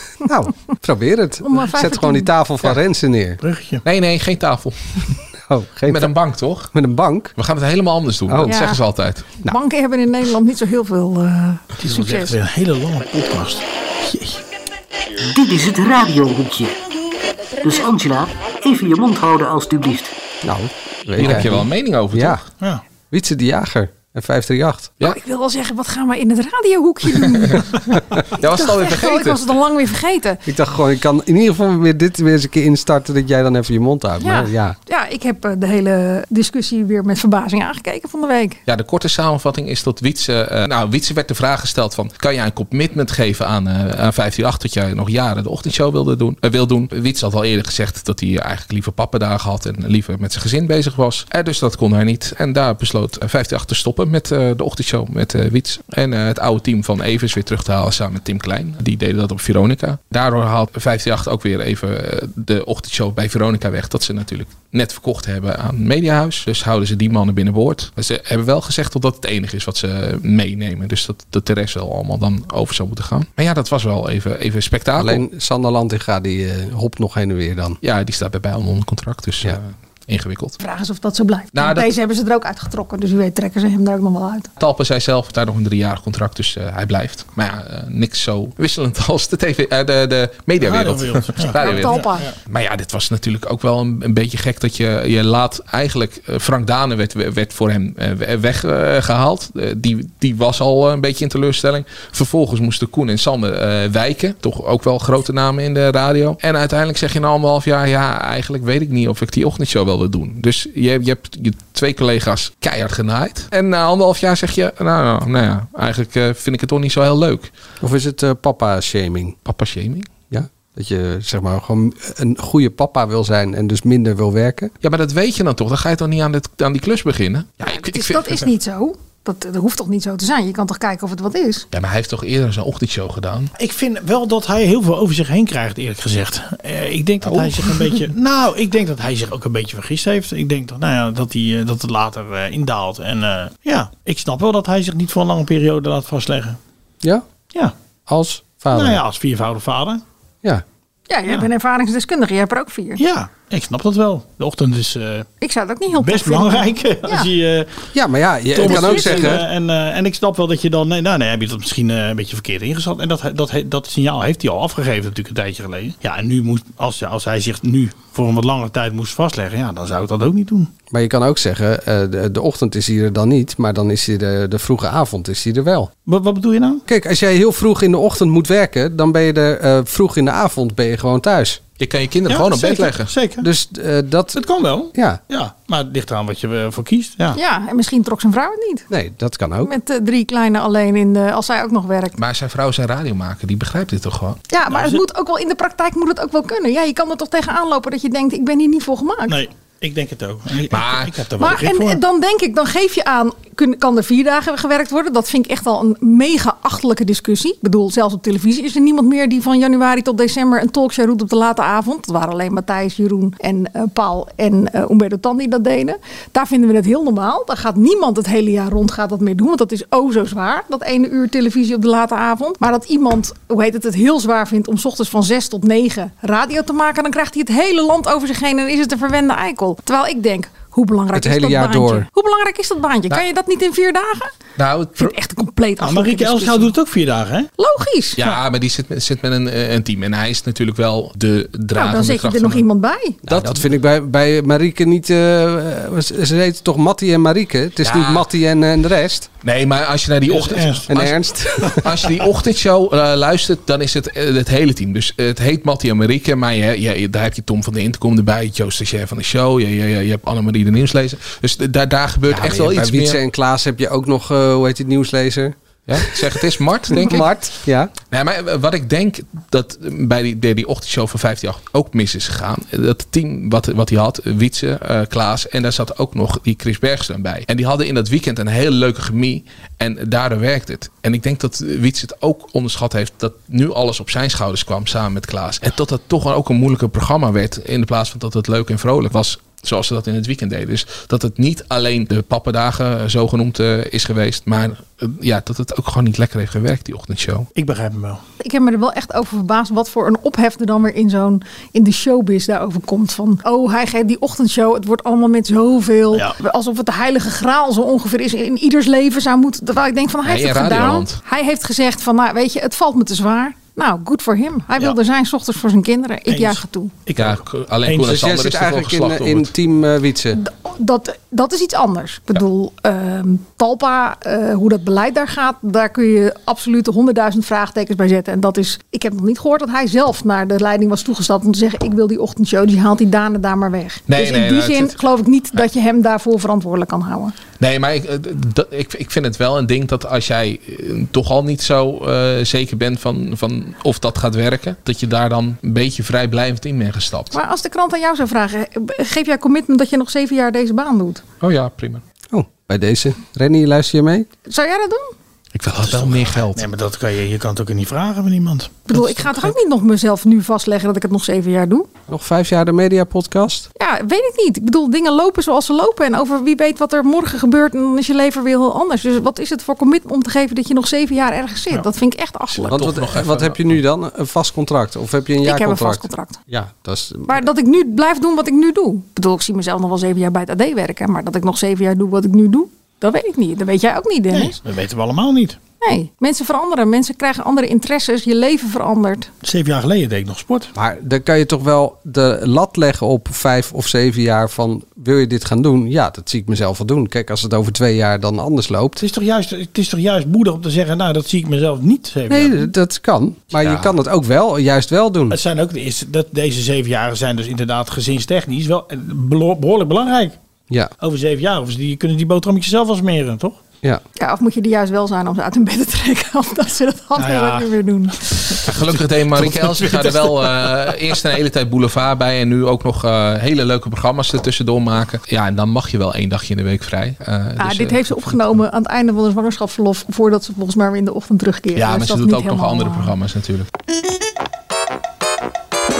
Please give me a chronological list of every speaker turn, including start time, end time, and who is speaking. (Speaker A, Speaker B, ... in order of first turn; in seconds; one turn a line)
Speaker A: 0.2-3.4
Speaker B: 1.4-2.3
Speaker C: 3.4-3.8
Speaker D: 3.8-5.1
Speaker A: 5.5-6.1
Speaker D: 5.9-6.7
Speaker A: 6.7-7.3
Speaker D: 7.3-9.3
Speaker A: 8.3-8.6
Speaker B: 8.4-8.8
Speaker B: 9.4-12.3
Speaker C: 11.8-14.4
Speaker E: 15.2-16.7
Speaker E: 17.6-20.1
Speaker A: 20.4-22.4
Speaker D: 21.2-22.4
Speaker A: 23.1-24.9
Speaker B: 25.0-27.8
Speaker B: 28.3-30.4
Speaker D: 28.3-29.5
Speaker A: 30.4-34.7
Speaker B: 34.2-38.6
Speaker D: 38.7-75.2
Speaker A: 75.0-77.8
Speaker D: 77.8-80.6
Speaker B: 80.6-84.5
Speaker D: 81.5-81.9
Speaker D: 84.6-117.5
Speaker C: 90.6-92.3
Speaker B: 91.6-92.3
Speaker A: 117.8-119.4
Speaker D: 119.4-120.1
Speaker A: 120.3-124.7
Speaker D: 124.8-128.4
Speaker B: 127.6-131.7
Speaker D: 131.7-133.5
Speaker C: 133.6-146.6
Speaker D: 137.2-138.0
Speaker A: 148.1-149.0
Speaker C: 148.7-150.0
Speaker B: 151.1-153.0
Speaker C: 153.0-155.3
Speaker B: 155.4-157.3
Speaker C: 155.9-157.8
Speaker A: 157.9-159.4
Speaker C: 158.5-170.7
Speaker B: 158.6-159.3
Speaker A: 170.9-175.9
Speaker C: 176.1-176.8
Speaker A: 176.9-181.6
Speaker D: 181.8-183.1
Speaker C: 182.3-183.5
Speaker A: 183.4-185.2
Speaker C: 184.3-187.4
Speaker B: 187.3-188.9
Speaker A: 188.9-189.7
Speaker B: 189.6-192.2
Speaker D: 192.2-194.4
Speaker B: 194.5-199.4
Speaker C: 194.7-195.0
Speaker C: 199.3-202.0
Speaker D: 200.7-201.1
Speaker B: 201.4-234.3
Speaker A: 231.1-232.1
Speaker D: 234.6-235.1
Speaker B: 235.0-236.7
Speaker C: 235.8-237.5
Speaker B: 237.6-238.2
Speaker D: 238.2-242.6
Speaker B: 241.7-243.2
Speaker D: 243.3-243.7
Speaker A: 243.3-249.3
Speaker D: 247.8-248.2
Speaker D: 249.4-263.2
Speaker C: 250.3-250.9
Speaker A: 250.9-252.1
Speaker A: 262.3-267.9
Speaker D: 265.9-267.3
Speaker D: 268.1-297.5
Speaker C: 297.5-298.2
Speaker B: 298.4-316.9
Speaker D: 310.2-311.2
Speaker C: 316.3-318.1
Speaker D: 317.1-319.5
Speaker A: 318.0-320.4
Speaker B: 320.3-337.3
Speaker D: 334.1-334.9
Speaker D: 337.6-347.4
Speaker B: 347.3-351.2
Speaker D: 351.4-352.0
Speaker A: 352.3-354.3
Speaker B: 354.5-355.1
Speaker D: 355.5-356.6
Speaker C: 355.8-359.5
Speaker B: 358.9-361.9
Speaker A: 362.1-363.7
Speaker B: 363.8-372.8
Speaker D: 372.6-373.7
Speaker A: 372.7-377.4
Speaker B: 375.4-376.4
Speaker B: 377.3-384.6
Speaker C: 384.3-385.6
Speaker B: 385.8-389.3
Speaker C: 389.4-390.7
Speaker A: 390.7-399.0
Speaker C: 399.0-402.7
Speaker A: 402.3-405.4
Speaker D: 403.6-403.9
Speaker C: 405.3-410.4
Speaker C: 411.0-413.6
Speaker B: 414.1-418.6
Speaker C: 417.1-417.7
Speaker D: 418.6-428.6
Speaker C: 419.3-420.7
Speaker B: 427.6-433.1
Speaker D: 431.8-433.7